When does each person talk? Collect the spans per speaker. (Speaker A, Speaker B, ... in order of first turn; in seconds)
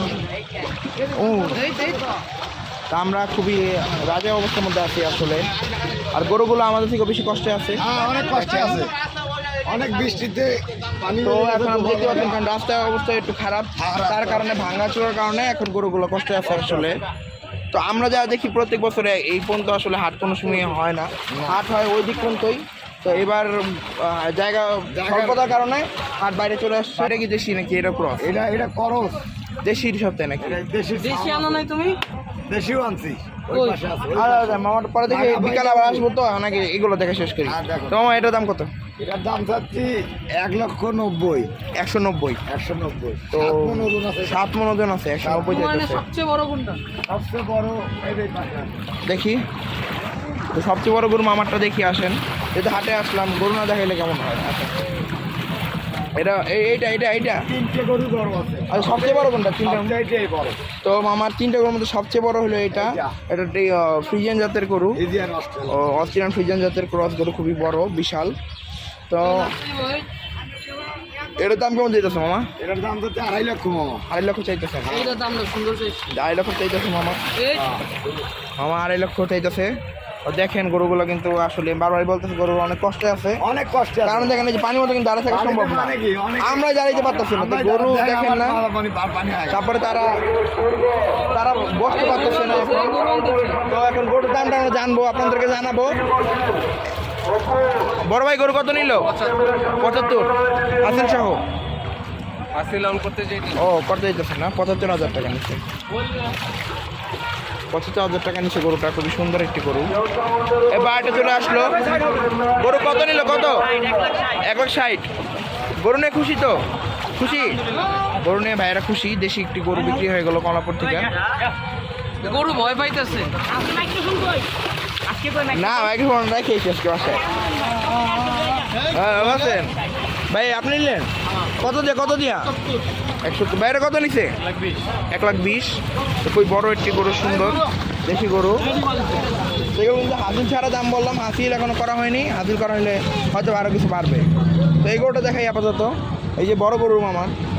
Speaker A: 1.1-1.7, 2.9-5.5, 6.1-7.8, 11.1-17.0, 17.7-28.3, 29.6-30.6, 34.1-38.7, 41.8-42.4, 43.3-46.0, 49.0-49.4, 50.5-54.7, 56.1-57.4, 58.7-60.0, 60.8-65.0, 65.7-68.3, 69.1-69.5, 71.4-72.5, 74.1-75.0, 76.1-77.2, 78.6-79.7, 80.2-83.4, 84.0-88.6, 89.5-90.1, 91.3-92.9, 93.7-96.0, 98.0-101.4, 103.5-105.6, 107.7-109.9, 110.7-113.7, 114.4-115.1, 115.8-116.5, 117.2-117.6, 118.2-121.1, 125.5-127.2, 128.9-129.7, 130.3-132.5, 133.2-134.3, 135.1-138.7, 139.7-144.3, 144.8-147.3
Speaker B: 7.8-8.9, 9.6-12.3, 13.8-14.4, 21.3-21.6, 24.9-25.5, 28.2-29.2, 30.4-31.7, 32.5-36.0, 37.5-38.0, 39.0-41.5, 42.5-44.4, 45.2-45.6, 47.1-48.7, 57.5-60.6, 62.7-63.1, 64.9-65.8, 72.6-74.0, 74.8-75.2, 77.5-78.2, 83.4-84.5, 85.3-86.7, 87.3-89.6
Speaker C: 30.9-32.0, 33.5-33.8, 45.5-46.8, 69.2-70.0, 74.9-76.0, 77.3-77.8, 91.9-93.6, 99.2-99.5, 102.5-103.5, 122.2-123.6